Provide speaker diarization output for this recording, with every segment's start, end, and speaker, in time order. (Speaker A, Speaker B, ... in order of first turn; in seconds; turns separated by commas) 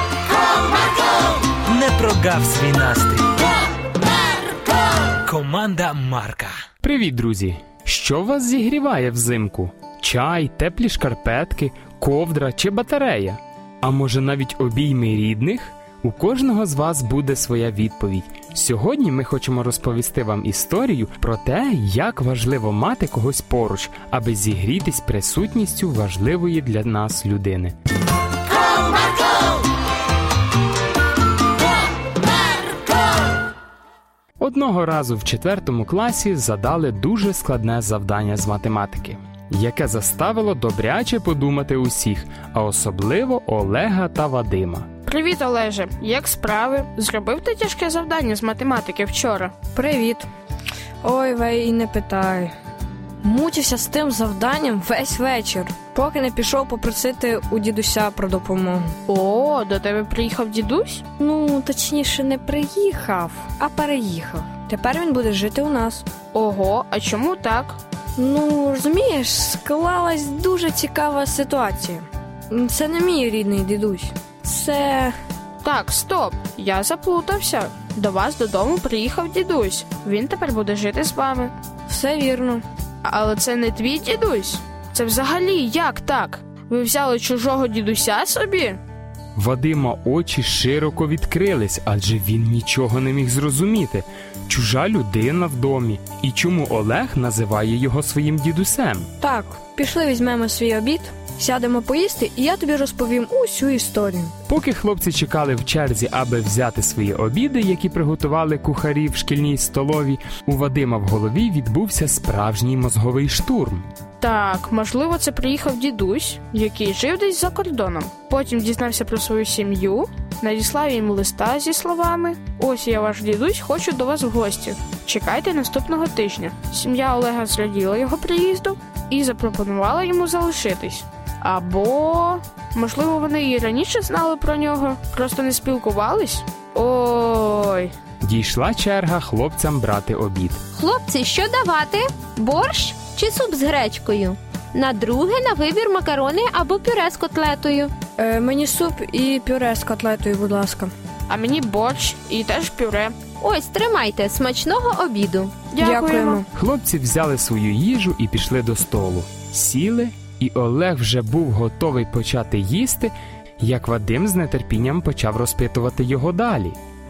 Speaker A: 1.6-3.3, Speaker A: 5.2-6.6, Speaker B: 6.8-27.7, Speaker B: 34.4-44.9, Speaker C: 45.0-49.5, Speaker D: 49.7-50.3, Speaker D: 51.0-52.5, Speaker D: 53.2-58.9, Speaker C: 59.1-61.0, Speaker D: 61.2-66.0, Speaker C: 66.3-67.8, Speaker D: 68.2-75.1, Speaker C: 75.6-81.5, Speaker D: 81.9-82.6, Speaker C: 83.0-88.8, Speaker B: 89.3-99.1, Speaker D: 99.2-104.3, Speaker B: 104.5-113.8, Speaker C: 114.2-137.9, Speaker B: 138.2-140.6, Speaker E: 140.8-147.9, Speaker D: 148.2-150.9, Speaker C: 151.3-153.2, Speaker E: 153.4-155.5, Speaker C: 155.7-156.4, Speaker D: 155.8-156.4, Speaker B: 156.5-166.8